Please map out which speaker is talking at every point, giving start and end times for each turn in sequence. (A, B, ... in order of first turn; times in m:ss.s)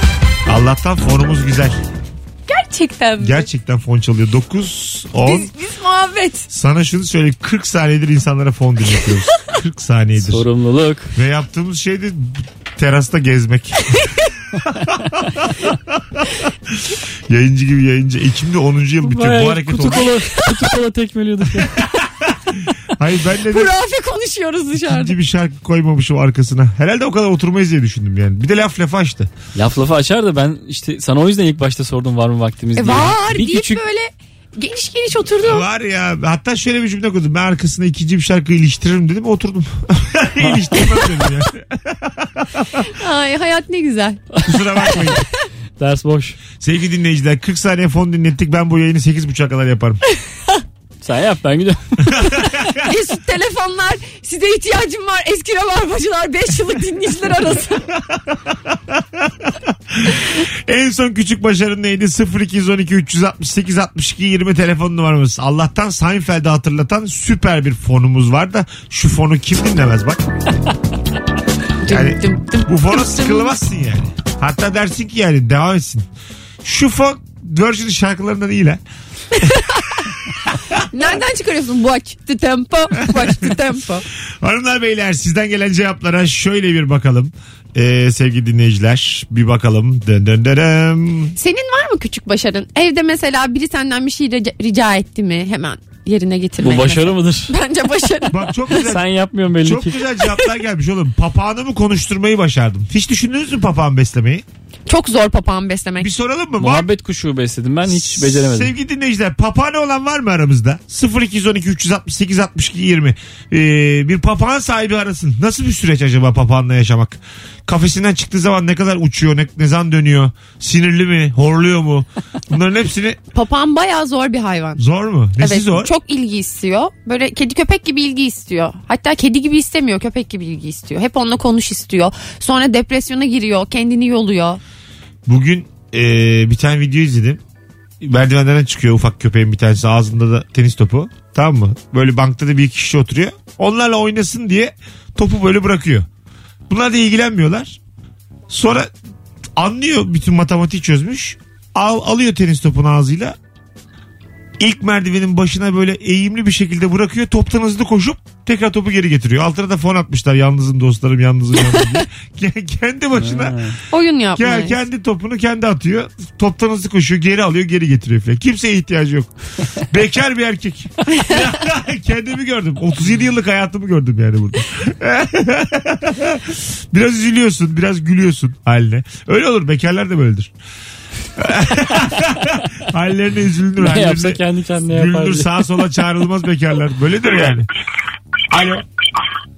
0:00.5-0:01.8 A
0:02.5-0:03.5 B
0:03.2-0:05.5 A
0:05.2-0:06.5 B
0:06.5-0:10.4 A
0:10.2-0:11.1 C
0:11.1-0:14.1 A
0:13.9-0:14.2 B
0:14.8-0:20.1 A
0:19.0-0:21.8 C
0:20.3-0:20.5 B
0:21.6-0:23.7 A
0:23.5-0:25.2 B
0:24.8-0:29.3 A
0:29.6-0:33.8 C
0:32.8-0:35.7 B
0:35.4-0:42.9 A
0:42.9-0:44.2 B
0:44.4-0:45.2 A
0:44.8-0:45.2 B
0:45.8-0:46.4 C
0:46.6-0:50.0 A
0:51.0-0:52.2 C
0:52.1-0:52.8 A
0:52.7-0:57.9 B
0:57.9-1:10.2 A
1:11.8-1:13.6 B
1:11.9-1:16.1 A
1:16.6-1:18.8 A
1:19.3-1:20.1 B
1:20.5-1:20.8 A
1:20.9-1:24.0 B
1:23.1-1:23.5 A
1:24.4-1:31.4 A
1:31.4-1:38.5 B
1:36.6-1:37.5 C
1:38.3-1:39.0 A
1:38.7-1:40.0 C
1:39.6-1:44.4 A
1:44.9-1:46.1 B
1:46.0-1:46.9 A
1:46.6-1:48.7 C
1:47.9-2:03.2 A
2:03.3-2:04.8 B
2:04.8-2:05.9 A
2:05.4-2:14.6 B
2:15.3-2:17.4 A
2:18.0-2:26.1 A
2:26.7-2:27.8 A
2:28.5-2:28.9 A
2:29.6-2:33.4 A
2:34.6-2:43.7 A
2:43.2-2:43.8 C
2:43.9-2:44.8 B
2:44.4-2:49.3 A
2:49.9-3:00.5 A
3:01.4-3:07.7 A
3:03.8-3:05.6 C
3:08.5-3:08.8 A